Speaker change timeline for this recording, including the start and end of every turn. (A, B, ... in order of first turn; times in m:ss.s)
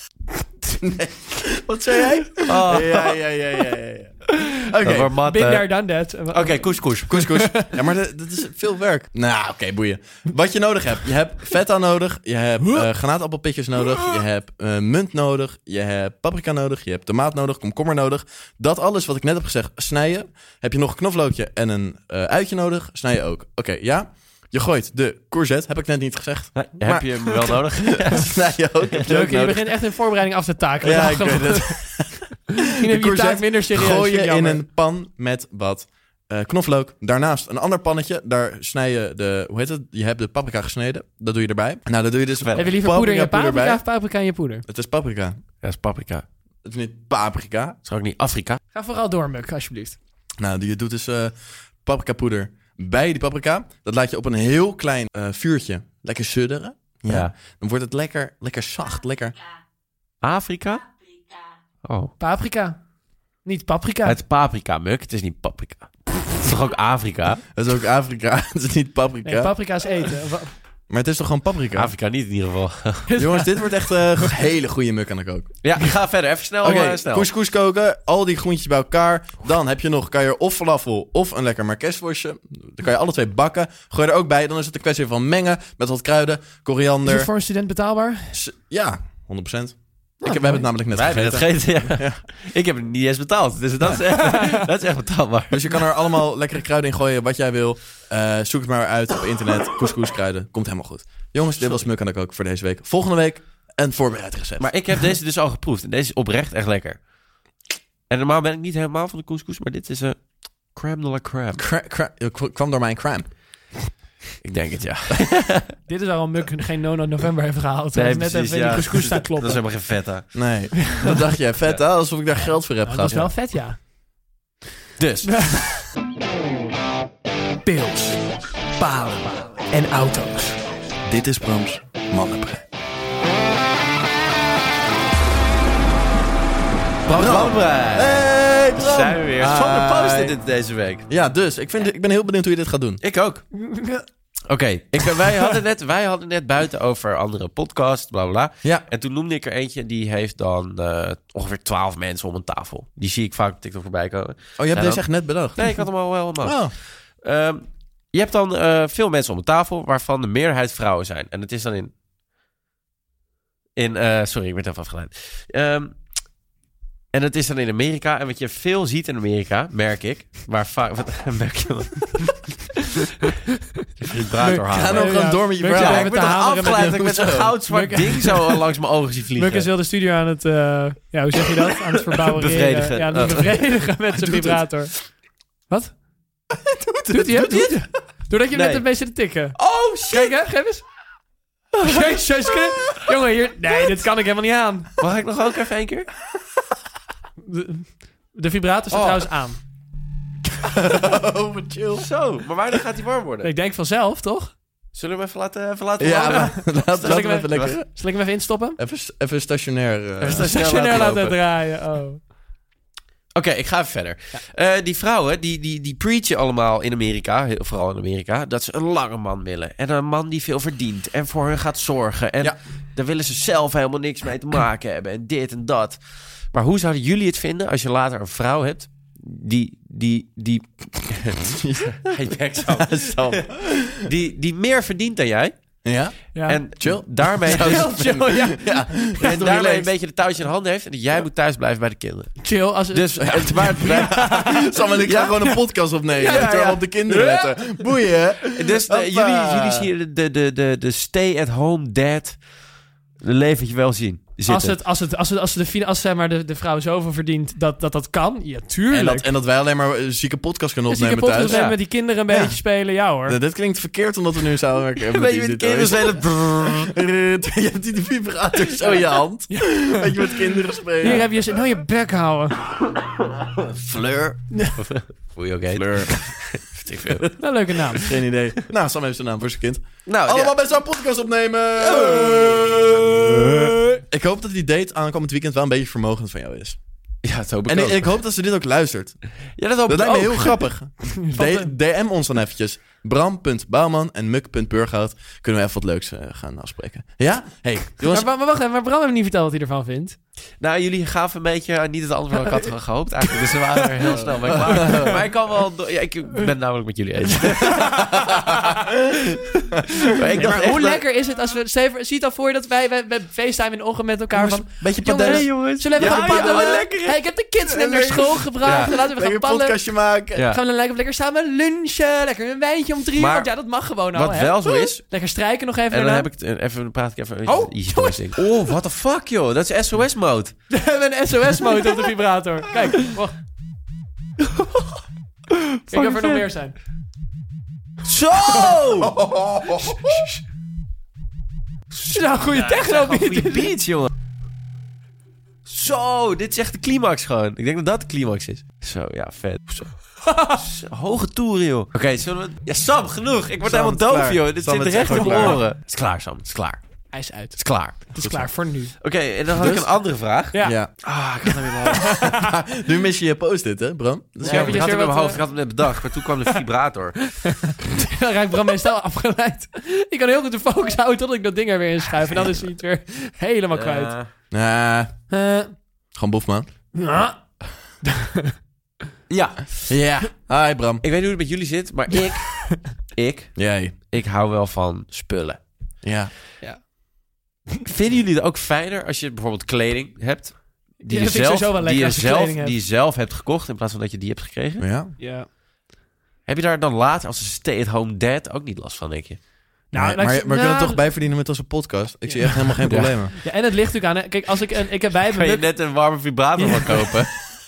0:00.8-0:05.1 A
0:02.4-0:03.2 B
0:04.8-0:05.7 B
0:05.2-0:07.7 C
0:06.3-0:07.3 B
0:07.1-0:29.7 A
0:26.6-0:28.3 B
0:29.0-0:31.9 C
0:30.8-0:43.8 A
0:32.7-0:34.6 C
0:42.4-0:42.6 B
0:42.6-0:44.6 C
0:44.7-0:45.4 A
0:45.6-0:46.2 B
0:46.6-0:47.8 A
0:47.8-0:48.6 B
0:48.7-0:50.0 C
0:50.4-0:59.4 A
1:00.2-1:01.1 B
1:01.8-1:02.1 B
1:02.2-1:02.8 C
1:03.4-1:04.2 C
1:04.0-1:07.4 B
1:07.5-1:09.5 A
1:09.2-1:10.5 C
1:10.9-1:11.9 A
1:11.8-1:13.1 B
1:13.1-1:13.9 C
1:13.2-1:15.7 A
1:15.6-1:17.3 B
1:16.6-1:27.3 A
1:27.0-1:28.4 C
1:28.3-1:32.2 A
1:30.2-1:30.6 C
1:30.9-1:35.8 B
1:34.2-1:34.6 C
1:35.5-1:44.7 A
1:41.6-1:41.9 B
1:44.6-1:47.0 B
1:48.1-1:51.6 B
1:51.5-1:53.2 A
1:54.4-1:55.7 B
1:55.9-1:59.6 C
1:57.9-2:00.4 B
2:00.3-2:03.3 A
2:02.8-2:03.8 C
2:05.0-2:05.7 B
2:05.3-2:05.6 C
2:07.6-2:10.6 C
2:11.0-2:12.6 A
2:17.0-2:21.1 B
2:17.1-2:20.3 A
2:21.1-2:23.0 A
2:23.0-2:23.4 B
2:23.5-2:24.0 C
2:24.5-2:41.9 B
2:34.6-2:35.8 A
2:36.4-2:36.7 A
2:43.8-2:46.0 B
2:47.1-2:52.5 B
2:54.1-2:59.7 B
2:54.4-2:57.0 C
2:54.7-2:57.6 A
2:57.7-2:58.5 C
2:59.4-3:05.2 C
3:02.2-3:03.6 B
3:04.1-3:04.6 A
3:05.7-3:06.0 C
3:06.5-3:07.8 A
3:07.1-3:09.6 C
3:08.5-3:08.8 B
3:09.5-3:10.3 B
3:10.1-3:10.8 C
3:11.8-3:14.9 C
3:15.0-3:16.1 B
3:17.4-3:19.6 C
3:18.9-3:19.2 B
3:20.6-3:22.1 A
3:22.0-3:23.5 B
3:23.4-3:24.5 C
3:24.9-3:27.8 B
3:26.0-3:27.9 A
3:26.2-3:28.8 C
3:28.8-3:30.5 A
3:30.2-3:31.4 B
3:30.3-3:32.2 C
3:33.3-3:46.0 B
3:46.5-3:51.4 B
3:51.3-3:52.0 A
3:52.0-3:53.5 B
3:52.6-3:54.1 A
3:54.0-3:55.5 B
3:55.8-3:59.9 A
3:56.3-3:56.6 C
3:56.5-3:58.4 B
3:57.5-3:58.6 C
3:59.2-4:04.4 B
4:02.4-4:04.8 C
4:03.2-4:09.9 A
4:05.0-4:05.4 B
4:06.2-4:07.8 C
4:06.2-4:07.1 B
4:08.5-4:12.4 B
4:13.2-4:14.8 B
4:14.5-4:19.3 C
4:18.9-4:21.6 A
4:20.9-4:23.4 C
4:21.4-4:21.8 B
4:22.2-4:22.6 A
4:23.2-4:31.3 A
4:25.0-4:26.9 B
4:29.5-4:30.1 C
4:31.0-4:32.6 C
4:33.7-4:37.3 B
4:34.5-4:34.8 C
4:35.7-4:36.3 A
4:37.4-4:38.0 C
4:38.0-4:46.8 A
4:40.0-4:40.6 B
4:41.8-4:43.2 B
4:47.2-4:48.1 B
4:47.6-4:49.2 A
4:49.6-4:50.6 B
4:49.8-4:58.3 A
4:51.0-4:51.7 C
4:58.0-5:00.2 C
5:00.6-5:11.0 B
5:03.5-5:04.2 C
5:04.4-5:05.2 A
5:04.8-5:05.1 C
5:07.4-5:08.0 C
5:07.9-5:08.9 A
5:10.3-5:19.8 C
5:14.3-5:16.8 A
5:15.2-5:17.2 B
5:17.6-5:20.4 A
5:18.6-5:18.9 B
5:20.3-5:20.6 B
5:20.5-5:26.3 C
5:23.2-5:23.5 B
5:24.1-5:25.0 B
5:25.9-5:30.6 B
5:27.4-5:28.4 C
5:30.7-5:33.3 C
5:34.5-5:34.9 B
5:35.6-5:36.4 B
5:35.9-5:36.7 C
5:38.0-5:39.2 B
5:39.0-5:40.1 A
5:39.8-5:40.3 C
5:41.9-5:44.1 B
5:42.1-5:43.7 C
5:45.7-5:56.8 B
5:50.2-5:50.6 C
5:53.6-5:55.6 A
5:55.1-5:55.6 C
5:57.1-5:58.9 C
5:57.5-5:58.1 B
5:58.2-5:58.5 A
5:59.0-6:02.2 B
5:59.5-5:59.9 A
6:00.6-6:00.9 A
6:01.5-6:02.5 C
6:02.0-6:04.9 A
6:04.4-6:05.4 C
6:04.4-6:07.4 B
6:06.2-6:06.6 C
6:07.3-6:14.1 C
6:12.2-6:12.6 B
6:13.7-6:14.3 B
6:14.5-6:15.1 A
6:15.3-6:15.7 C
6:16.1-6:16.7 A
6:16.9-6:17.4 C
6:18.0-6:18.5 C
6:19.3-6:19.9 B
6:19.9-6:21.0 A
6:21.0-6:25.6 B
6:23.6-6:23.9 A
6:26.0-6:26.3 A
6:26.6-6:26.9 C
6:27.8-6:34.8 B
6:31.0-6:32.8 C
6:34.8-6:35.1 A
6:35.2-6:35.4 C
6:36.5-6:39.4 B
6:39.9-6:41.0 C
6:39.9-6:43.3 A
6:42.2-6:42.7 C
6:42.9-6:43.2 B
6:43.3-6:45.6 C
6:45.3-6:47.3 B
6:46.6-6:47.1 C